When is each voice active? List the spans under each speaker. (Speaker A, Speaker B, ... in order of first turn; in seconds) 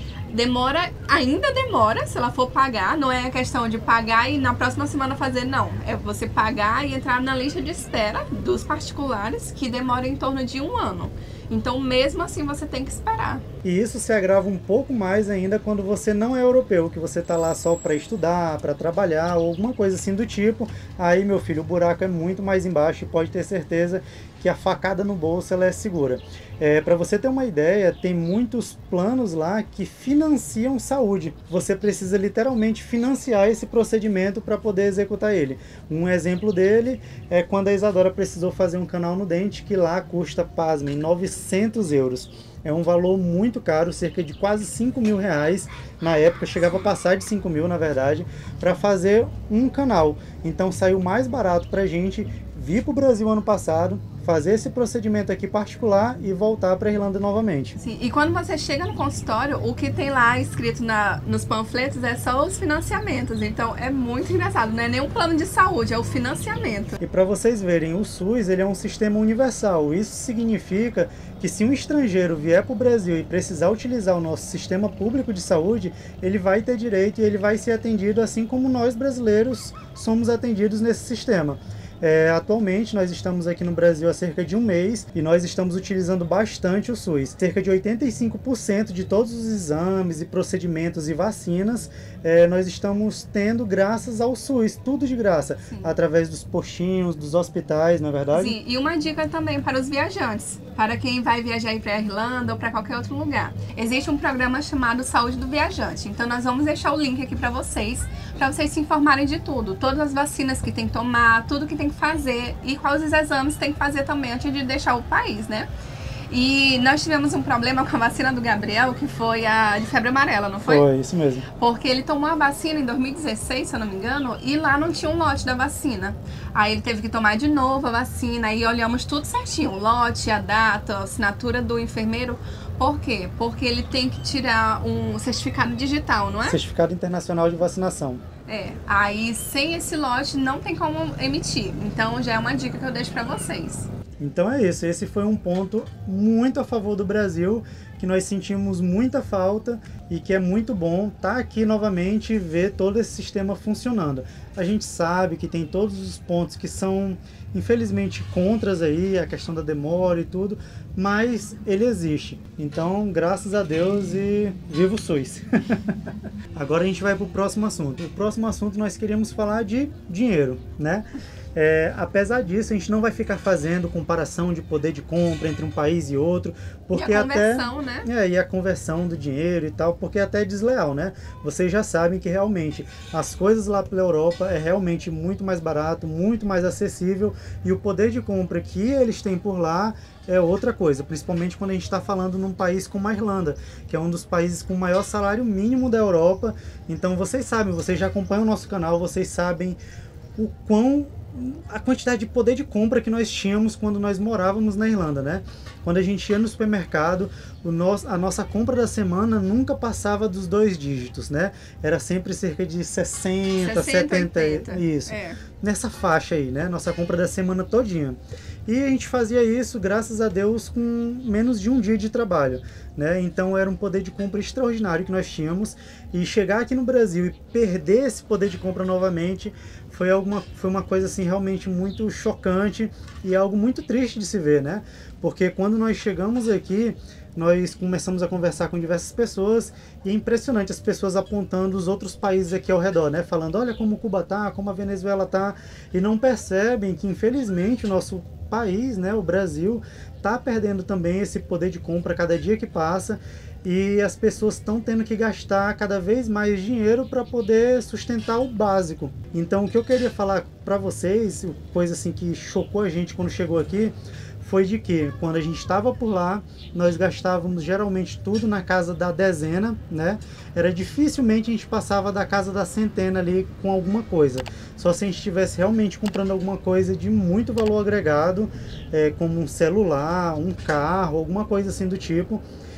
Speaker A: 0.3-13.4, 57.8-67.0, 98.3-115.7, 116.3-120.8, 121.6-136.6, 138.5-143.9, 176.9-178.1, 213.6-215.4
Speaker B: 13.6-57.8, 67.0-98.6, 120.6-121.5, 136.4-138.2, 144.2-165.9, 166.5-199.8, 200.4-282.4